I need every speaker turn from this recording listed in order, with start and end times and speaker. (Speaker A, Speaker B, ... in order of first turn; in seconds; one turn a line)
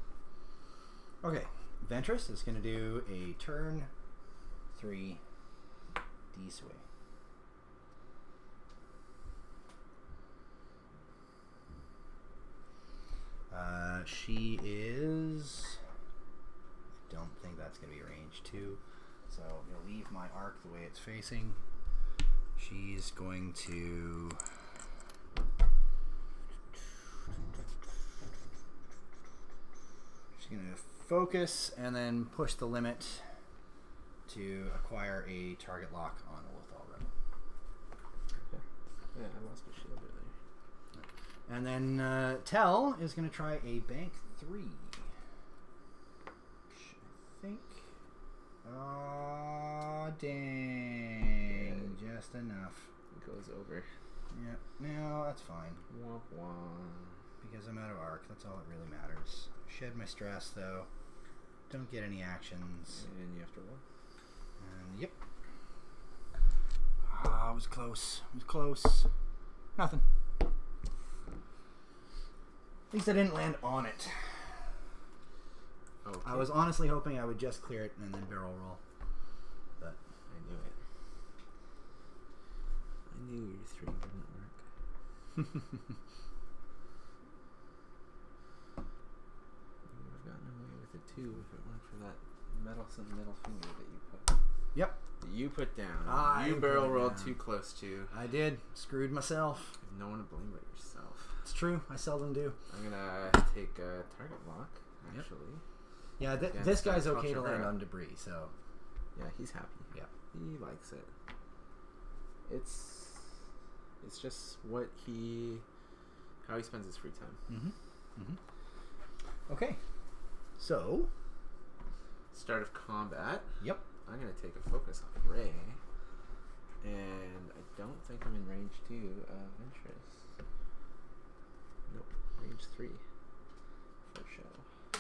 Speaker A: 1.2-3.9
Speaker A: 4.7-5.2
Speaker A: 6.3-6.8
Speaker A: 13.5-15.8
Speaker A: 17.1-21.6
Speaker A: 22.6-24.4
Speaker A: 30.4-33.2
Speaker A: 34.2-37.1
Speaker B: 39.1-40.3
Speaker A: 40.9-45.1
Speaker A: 46.7-47.9
Speaker A: 48.6-52.9
Speaker B: 51.5-52.0
Speaker B: 53.1-53.9
Speaker A: 54.3-55.8
Speaker B: 55.9-57.2
Speaker A: 57.4-60.9
Speaker A: 61.7-63.0
Speaker B: 62.9-63.8
Speaker A: 64.6-65.1
Speaker A: 67.1-69.1
Speaker A: 69.8-70.0
Speaker A: 72.9-74.5
Speaker B: 76.0-76.6
Speaker A: 76.2-78.8
Speaker B: 80.3-80.8
Speaker B: 83.1-84.6
Speaker B: 89.9-94.3
Speaker A: 94.7-95.0
Speaker B: 95.2-98.1
Speaker A: 96.0-97.3
Speaker A: 98.1-99.7
Speaker B: 99.8-101.4
Speaker A: 101.4-102.6
Speaker B: 102.7-105.6
Speaker A: 106.2-108.5
Speaker B: 106.4-107.8
Speaker B: 109.1-111.1
Speaker B: 112.5-113.4
Speaker B: 114.0-115.6
Speaker B: 116.4-117.4
Speaker A: 117.5-118.4
Speaker A: 119.5-119.8
Speaker A: 120.6-121.1
Speaker B: 122.3-123.5
Speaker B: 124.0-125.8
Speaker B: 126.8-130.2
Speaker B: 131.9-133.0
Speaker B: 134.1-134.6